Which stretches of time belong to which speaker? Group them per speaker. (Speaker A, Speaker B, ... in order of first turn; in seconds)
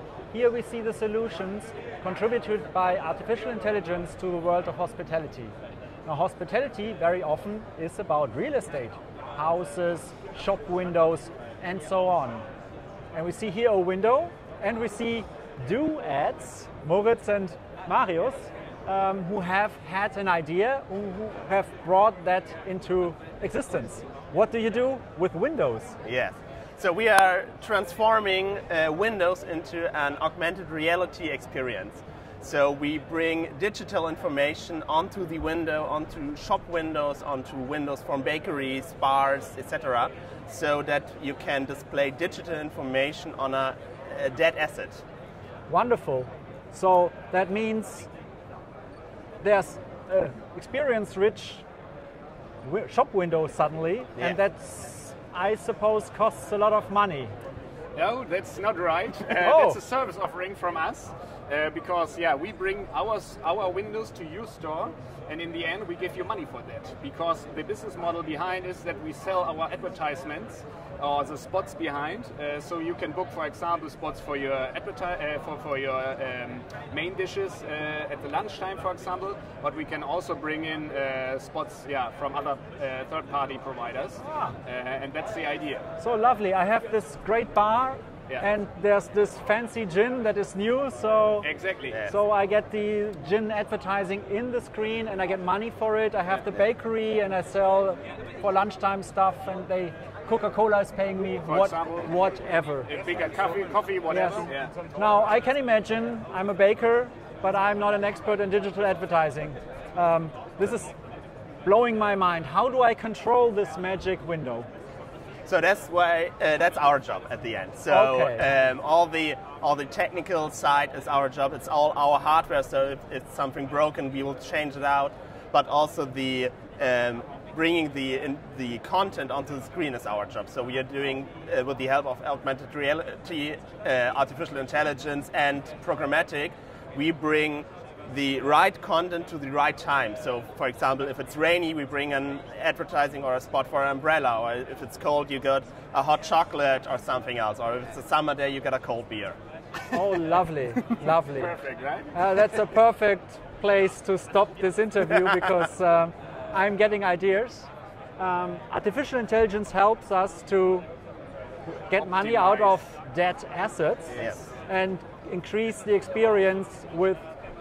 Speaker A: 0.3-5.5, 6.0-12.4, 13.1-26.0, 45.7-48.1, 49.4-51.6, 52.6-57.3, 59.4-59.8, 84.2-84.6, 86.0-91.5, 92.0-102.9, 104.1-110.9, 111.7-114.7, 117.9-118.5, 149.9-151.6, 152.1-160.9, 161.7-167.2
Speaker B: 26.0-45.0, 115.5-149.4, 164.2-164.5
Speaker C: 58.0-85.8, 91.4-92.0, 101.5-102.1, 102.9-104.7, 151.2-152.2, 161.9-162.8